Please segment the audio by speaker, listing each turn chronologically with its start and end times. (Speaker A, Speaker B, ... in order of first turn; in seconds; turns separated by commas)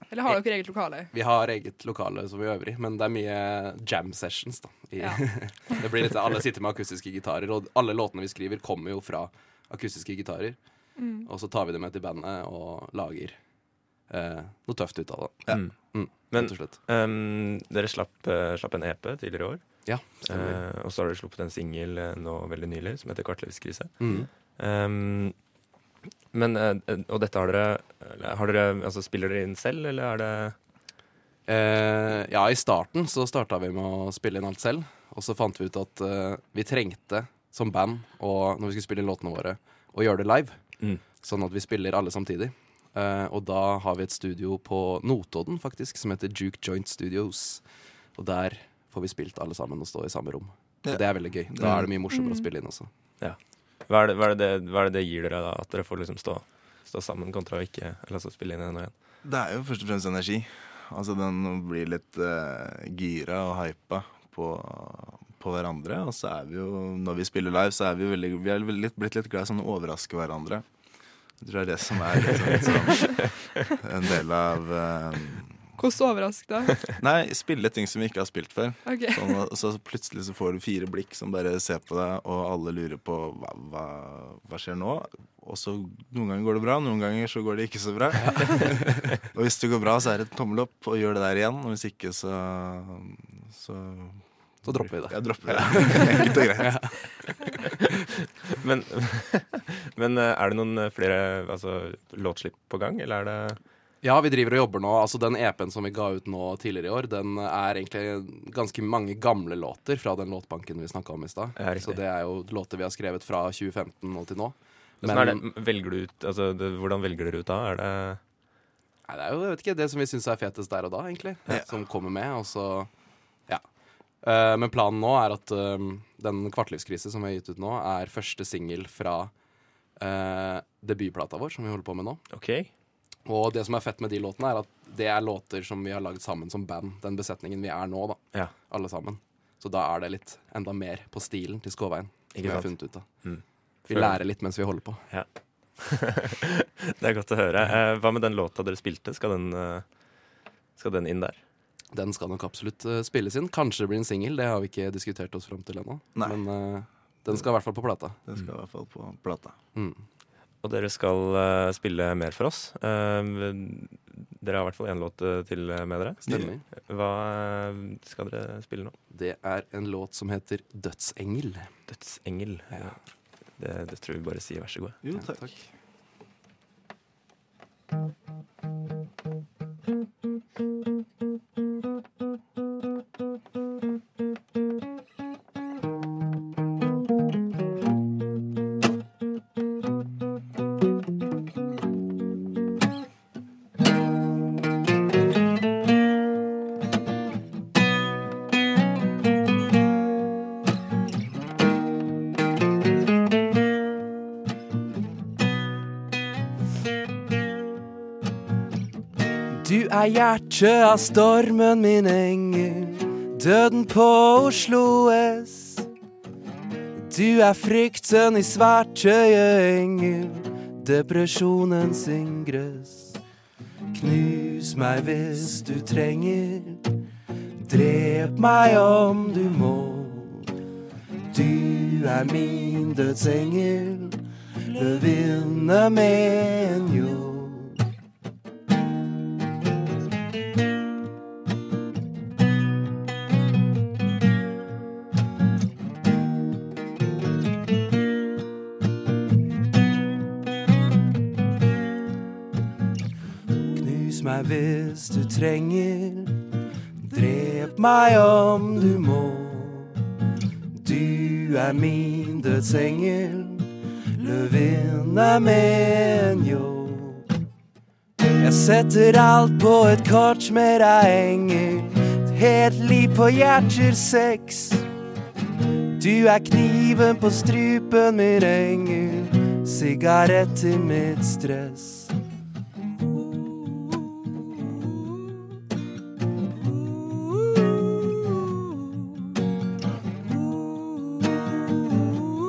Speaker A: 0.1-1.1, Speaker B: 1.1-10.6, Speaker A: 10.9-11.3, Speaker B: 11.2-13.4, Speaker B: 14.1-16.8, Speaker C: 16.3-19.6, Speaker B: 19.9-20.6, Speaker C: 20.2-25.3, Speaker B: 24.0-24.3, Speaker C: 26.3-30.6, Speaker B: 31.5-40.6, Speaker B: 41.2-47.6, Speaker B: 48.1-52.9, Speaker D: 50.8-51.8, Speaker A: 52.1-52.5, Speaker C: 53.2-58.9, Speaker D: 59.2-70.6, Speaker D: 71.4-75.6, Speaker A: 75.8-76.8, Speaker D: 77.0-96.9, Speaker A: 78.8-79.2, Speaker B: 88.2-89.0, Speaker B: 94.6-97.0, Speaker C: 98.4-103.6, Speaker B: 104.0-115.4, Speaker C: 111.6-112.0, Speaker C: 115.0-118.2, Speaker B: 119.1-122.9, Speaker B: 124.2-129.3, Speaker B: 130.0-132.2, Speaker C: 132.3-132.7, Speaker B: 133.2-143.1, Speaker C: 142.3-144.2, Speaker B: 143.9-145.0, Speaker C: 145.8-149.8, Speaker C: 150.8-151.4, Speaker B: 151.9-158.2, Speaker D: 158.3-159.6, Speaker B: 159.8-160.0, Speaker C: 160.6-168.9, Speaker B: 166.3-166.6, Speaker B: 169.1-171.7, Speaker C: 171.9-172.9, Speaker C: 173.6-175.0, Speaker D: 175.0-175.5, Speaker B: 209.6-215.8, Speaker B: 216.9-223.1, Speaker B: 223.9-226.8, Speaker B: 227.6-230.5, Speaker B: 231.3-234.2, Speaker B: 234.7-237.8, Speaker B: 253.7-256.3, Speaker B: 257.0-259.9, Speaker B: 260.7-263.6, Speaker B: 264.2-267.2, Speaker B: 268.4-274.8, Speaker B: 276.0-282.1